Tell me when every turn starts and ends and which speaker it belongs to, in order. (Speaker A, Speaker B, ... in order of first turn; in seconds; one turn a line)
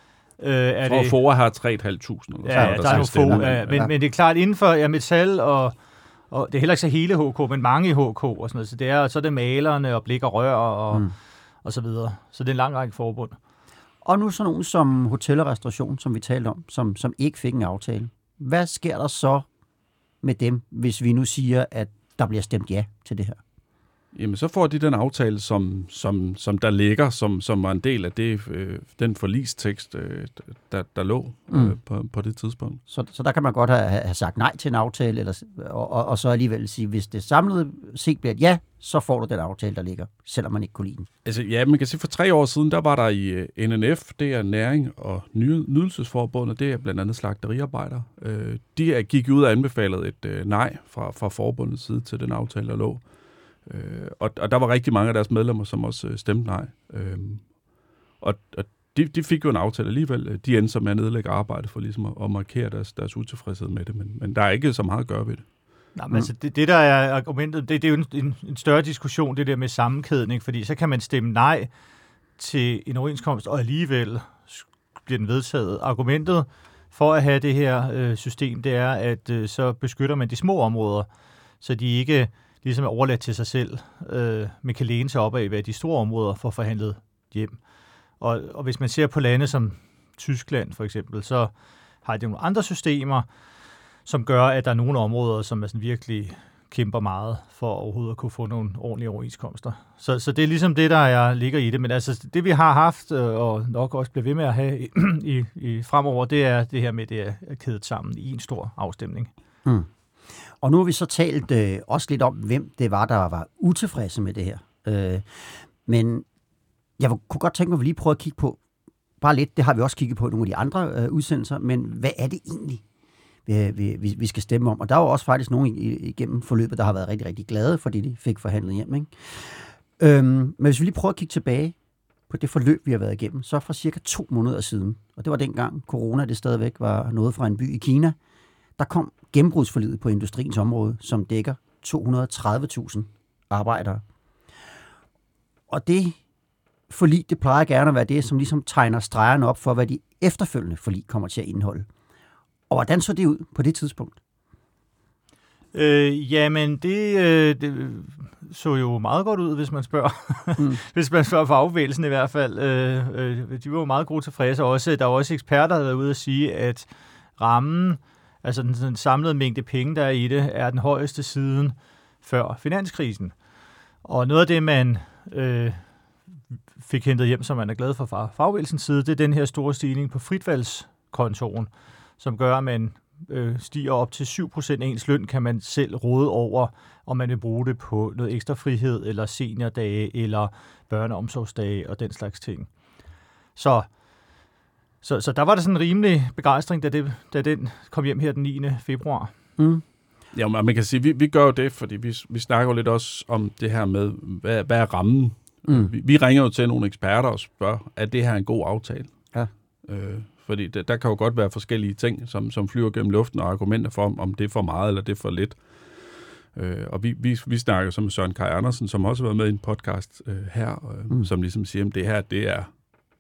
Speaker A: 0.4-1.1
Speaker B: 0.9-3.9
Speaker A: 2.5-5.8
Speaker C: 2.5-3.9
Speaker A: 6.3-11.1
Speaker A: 11.6-13.4
Speaker C: 14.0-19.5
Speaker C: 20.2-23.4
Speaker B: 24.1-32.8
Speaker C: 31.5-31.8
Speaker C: 32.9-41.1
Speaker B: 41.2-53.0
Speaker B: 53.7-57.4
Speaker B: 58.2-65.4
Speaker A: 66.0-71.7
Speaker A: 72.4-81.1
Speaker A: 81.6-87.6
Speaker A: 88.2-91.5
Speaker A: 92.0-93.3
Speaker A: 94.1-109.3
Speaker C: 110.6-116.2
Speaker C: 117.0-118.6
Speaker C: 119.2-122.8
Speaker C: 123.5-131.8
Speaker C: 132.3-138.2
Speaker C: 138.8-144.0
Speaker C: 145.7-146.2
Speaker C: 146.9-151.9
Speaker C: 152.7-154.2
Speaker A: 155.7-173.3
Speaker A: 174.0-175.8
Speaker A: 176.8-192.7
Speaker A: 193.6-193.9
Speaker A: 195.0-199.3
Speaker C: 199.6-199.8
Speaker B: 200.3-209.1
Speaker B: 209.9-215.6
Speaker B: 216.5-222.7